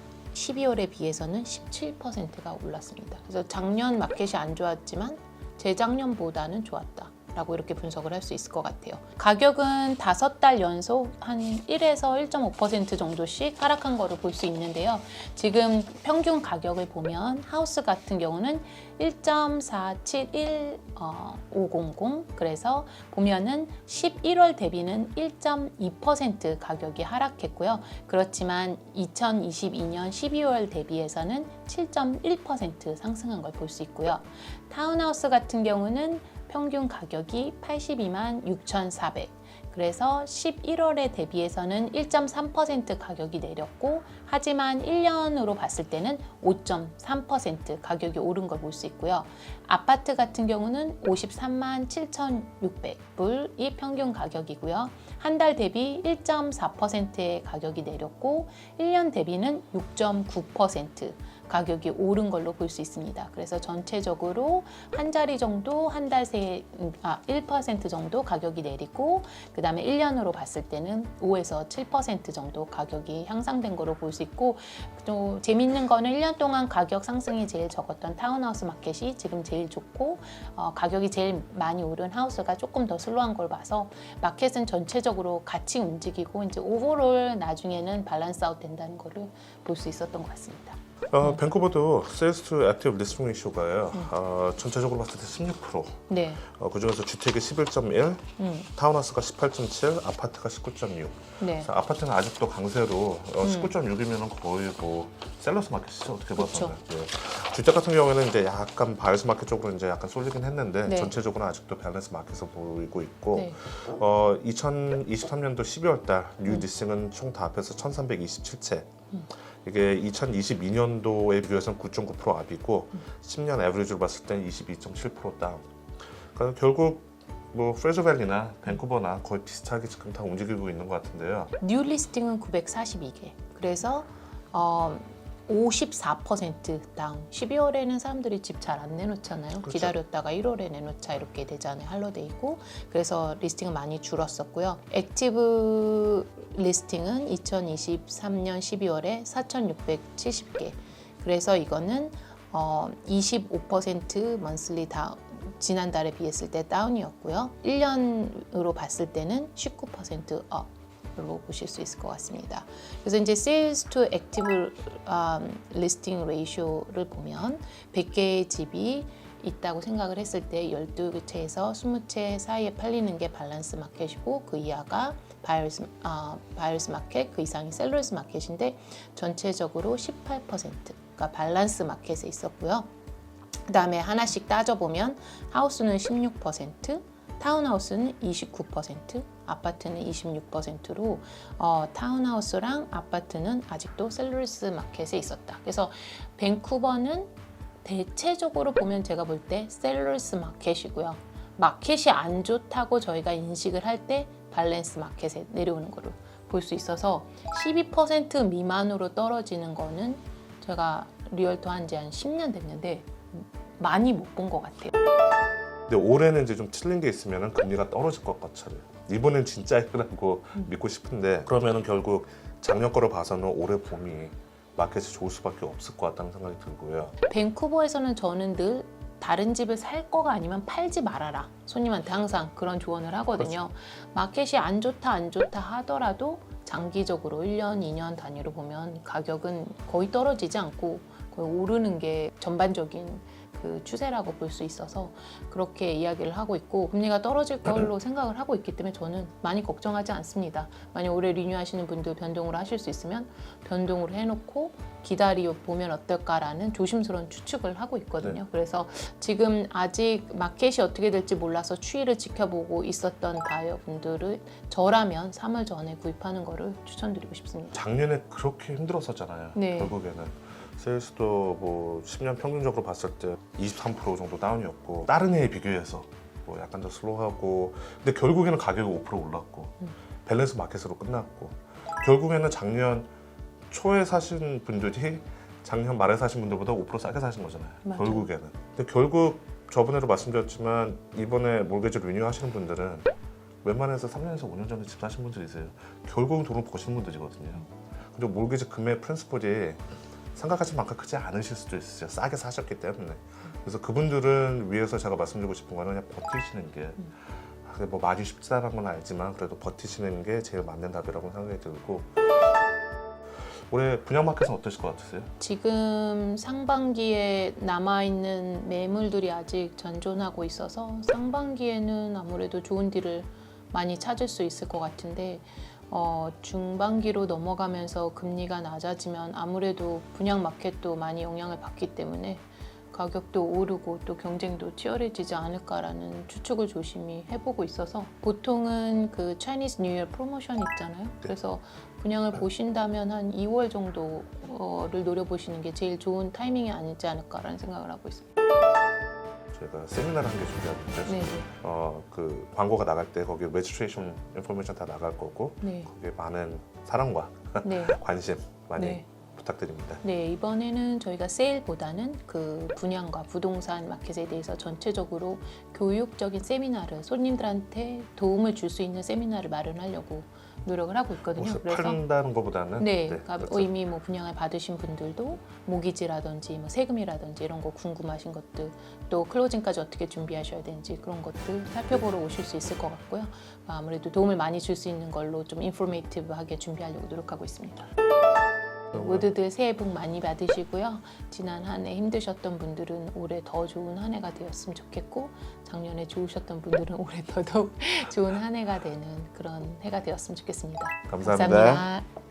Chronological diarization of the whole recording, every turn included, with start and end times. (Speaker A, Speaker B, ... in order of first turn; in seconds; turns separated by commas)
Speaker A: 0.3-91.4, Speaker B: 91.1-118.9, Speaker A: 96.1-96.4, Speaker A: 98.4-98.7, Speaker A: 101.4-101.7, Speaker A: 103.4-103.7, Speaker A: 106.4-106.7, Speaker A: 110.8-111.1, Speaker B: 119.6-125.6, Speaker B: 126.3-131.5, Speaker A: 131.6-182.9, Speaker B: 139.6-139.9, Speaker A: 183.7-197.3, Speaker A: 197.8-214.9, Speaker B: 215.9-227.1, Speaker A: 227.3-267.8, Speaker B: 267.7-283.1, Speaker A: 269.5-269.9, Speaker B: 283.7-293.1, Speaker A: 287.8-288.3, Speaker B: 293.6-299.8, Speaker B: 300.3-307.1, Speaker B: 307.6-312.1, Speaker B: 313.7-315.3, Speaker A: 315.4-348.3, Speaker B: 349.5-360.0, Speaker A: 351.1-351.5, Speaker A: 355.6-355.9, Speaker A: 357.6-358.0, Speaker A: 358.8-359.0, Speaker A: 360.0-372.0, Speaker B: 371.3-373.7, Speaker A: 372.8-387.9, Speaker A: 388.9-402.1, Speaker B: 401.1-401.9